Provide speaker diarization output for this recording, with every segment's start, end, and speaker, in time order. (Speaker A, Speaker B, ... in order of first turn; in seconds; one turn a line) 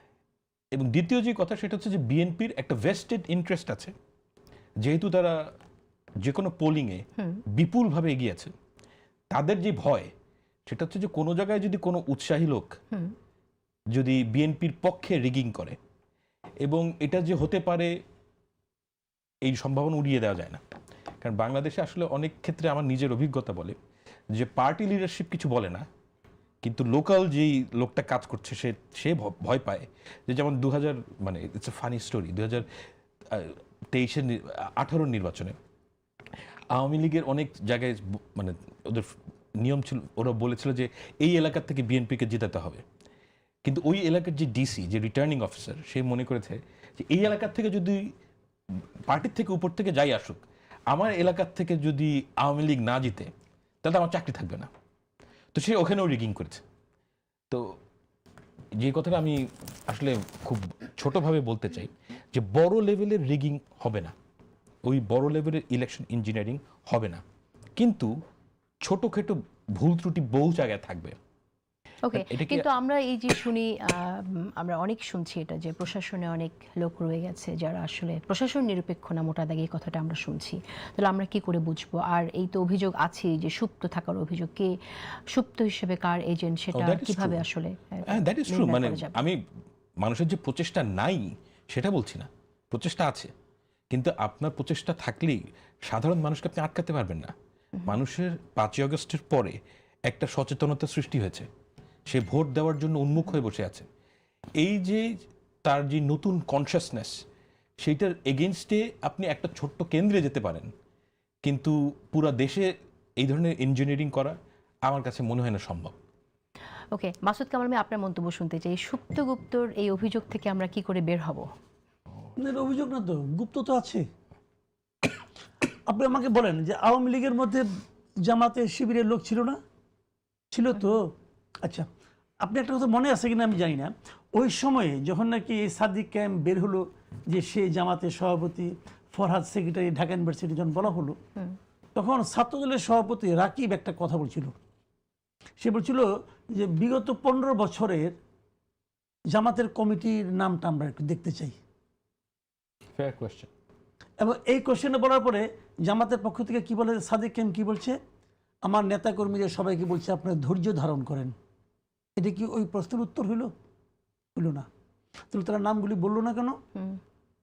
Speaker A: 0.7-3.9
Speaker A: 4.8-5.5
Speaker A: 6.2-8.5
Speaker A: 9.3-10.1
Speaker A: 10.7-12.8
Speaker A: 13.9-15.8
Speaker A: 16.6-17.9
Speaker A: 19.4-20.6
Speaker A: 21.2-23.8
Speaker A: 24.3-25.9
Speaker A: 26.6-32.7
Speaker A: 33.3-35.6
Speaker A: 36.7-42.8
Speaker A: 43.6-48.1
Speaker A: 49.1-53.3
Speaker A: 53.8-54.7
Speaker A: 55.5-56.6
Speaker A: 57.5-57.8
Speaker A: 58.8-64.1
Speaker A: 64.8-67.2
Speaker A: 67.8-68.1
Speaker A: 68.8-71.2
Speaker B: 72.1-84.7
Speaker A: 72.1-72.7
Speaker B: 85.3-89.1
Speaker A: 86.7-87.4
Speaker A: 88.1-89.4
Speaker A: 90.0-93.3
Speaker A: 93.9-97.3
Speaker A: 97.9-99.6
Speaker A: 100.1-101.5
Speaker A: 102.1-103.9
Speaker A: 104.6-105.1
Speaker A: 105.7-107.2
Speaker A: 107.8-110.7
Speaker A: 111.4-116.0
Speaker B: 116.9-121.5
Speaker C: 122.4-124.0
Speaker C: 125.9-127.7
Speaker C: 128.2-129.6
Speaker C: 130.5-131.1
Speaker C: 131.6-131.9
Speaker C: 132.4-141.2
Speaker C: 142.0-144.5
Speaker C: 145.6-148.2
Speaker C: 149.3-151.6
Speaker A: 153.0-153.5
Speaker C: 154.2-158.0
Speaker C: 158.6-161.3
Speaker C: 162.2-163.5
Speaker C: 164.4-164.7
Speaker C: 165.3-166.6